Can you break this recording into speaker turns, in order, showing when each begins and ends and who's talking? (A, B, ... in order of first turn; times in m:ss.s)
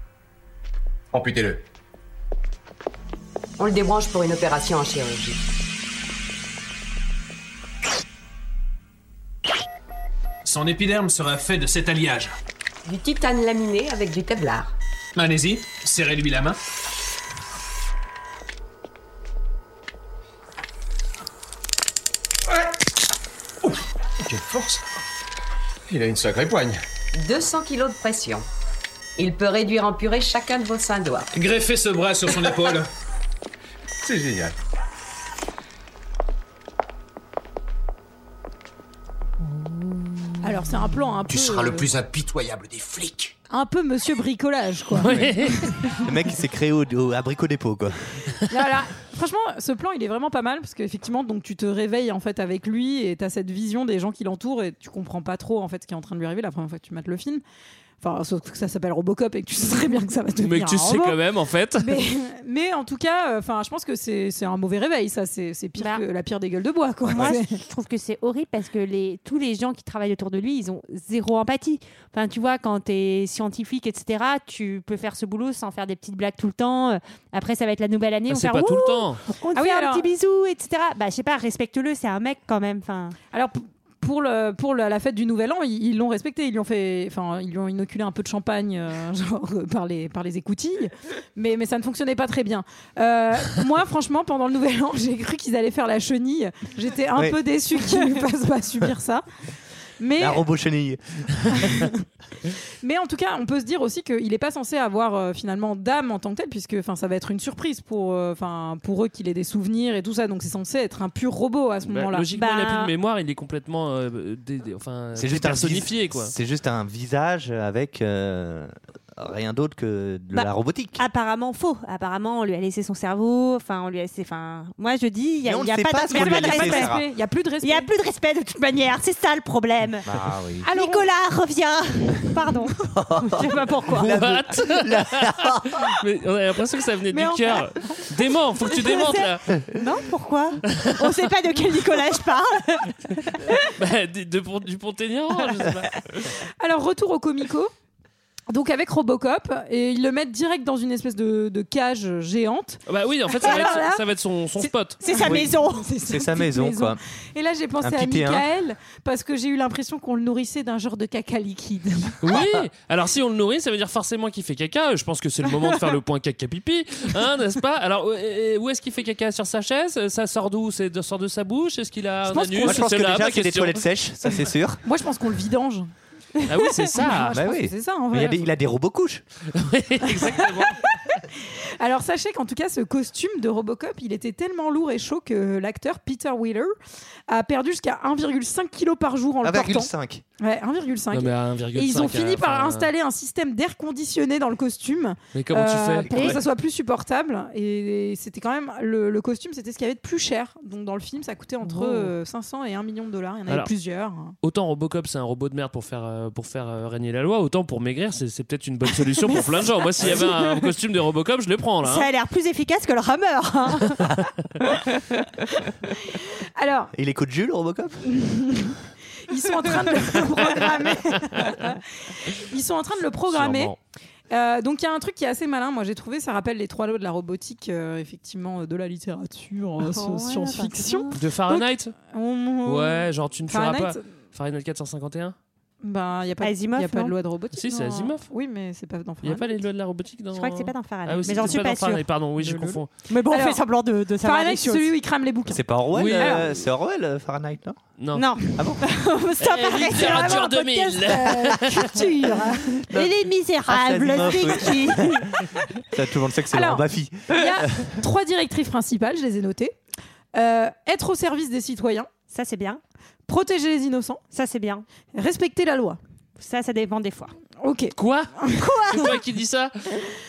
0:01.1-0:01.6 A
0:03.6-0:05.4 B
0:10.4-0:12.3 C
0:12.8-0:14.7 B
0:15.1-0:16.6 C
0:24.2-0:24.8 A
0:25.9-0:26.8 A
0:27.1-0:28.4 B
0:29.2-0:31.3 B
0:31.3-0:32.9 C
0:34.0-0:34.5 A
0:40.4-0:41.9 D
0:41.3-0:43.3 A
0:43.5-0:45.8 D
0:45.0-0:45.8 E
0:45.1-0:48.0 F
0:48.5-0:57.4 D
0:58.0-1:01.2 D
1:00.4-1:02.0 E
1:01.8-1:07.6 D
1:05.8-1:06.0 G
1:07.1-1:23.2 G
1:18.3-1:19.2 E
1:19.5-1:20.1 D
1:23.3-1:39.2 D
1:40.0-1:40.4 D
1:40.2-1:41.9 F
1:41.6-1:42.0 D
1:42.8-1:52.3 D
1:51.9-1:56.3 E
1:52.3-1:52.9 G
1:55.2-2:01.0 F
2:00.3-2:06.9 G
2:05.4-2:07.0 F
2:06.1-2:07.9 D
2:07.6-2:10.0 G
2:10.0-2:10.7 F
2:10.6-2:11.1 D
2:10.6-2:14.1 G
2:12.9-2:15.9 F
2:14.0-2:19.4 E
2:17.1-2:17.6 D
2:18.7-2:23.6 G
2:20.7-2:21.3 E
2:23.7-2:26.3 E
2:26.6-2:27.7 D
2:28.5-2:34.0 D
2:32.9-2:35.0 E
2:33.4-2:33.8 G
2:35.0-2:35.8 G
2:35.0-2:42.2 D
2:35.2-2:37.0 F
2:37.8-2:38.4 F
2:42.2-2:53.8 E
2:52.3-2:52.8 D
2:52.6-2:54.8 F
2:54.8-2:55.9 D
2:56.4-2:58.4 D
2:56.5-2:57.4 E
2:57.3-2:59.2 F
2:59.5-3:00.9 E
3:00.1-3:06.7 D
3:07.3-3:24.3 D
3:09.4-3:10.2 F
3:11.1-3:12.9 E
3:15.3-3:16.1 E
3:16.1-3:16.4 F
3:16.1-3:16.4 G
3:21.8-3:22.1 E
3:24.4-3:32.1 E
3:30.1-3:30.3 G
3:31.8-3:34.2 G
3:36.1-3:36.9 D
3:36.9-3:38.1 F
3:38.1-3:38.8 D
3:39.3-3:43.7 D
3:43.3-3:43.8 E
3:44.3-3:54.0 D
3:49.8-3:51.2 G
3:51.1-3:51.9 E
3:52.6-3:55.3 E
3:55.8-3:59.6 D
3:56.4-3:57.1 G
3:57.6-3:58.3 E
3:59.2-4:02.9 E
4:00.3-4:02.0 G
4:02.4-4:03.6 D
4:03.1-4:04.9 G
4:04.2-4:05.6 D
4:05.5-4:07.8 F
4:05.9-4:06.5 E
4:06.1-4:06.4 D
4:08.0-4:08.3 E
4:08.1-4:15.4 G
4:08.5-4:08.8 F
4:09.4-4:11.9 E
4:09.9-4:12.8 D
4:13.6-4:17.9 F
4:16.5-4:19.7 D
4:20.3-4:22.1 D
4:22.3-4:22.8 G
4:23.3-4:24.2 D
4:24.3-4:24.8 G
4:25.1-4:26.0 D
4:26.4-4:27.3 G
4:27.6-4:28.6 D
4:28.0-4:29.7 E
4:28.6-4:29.1 G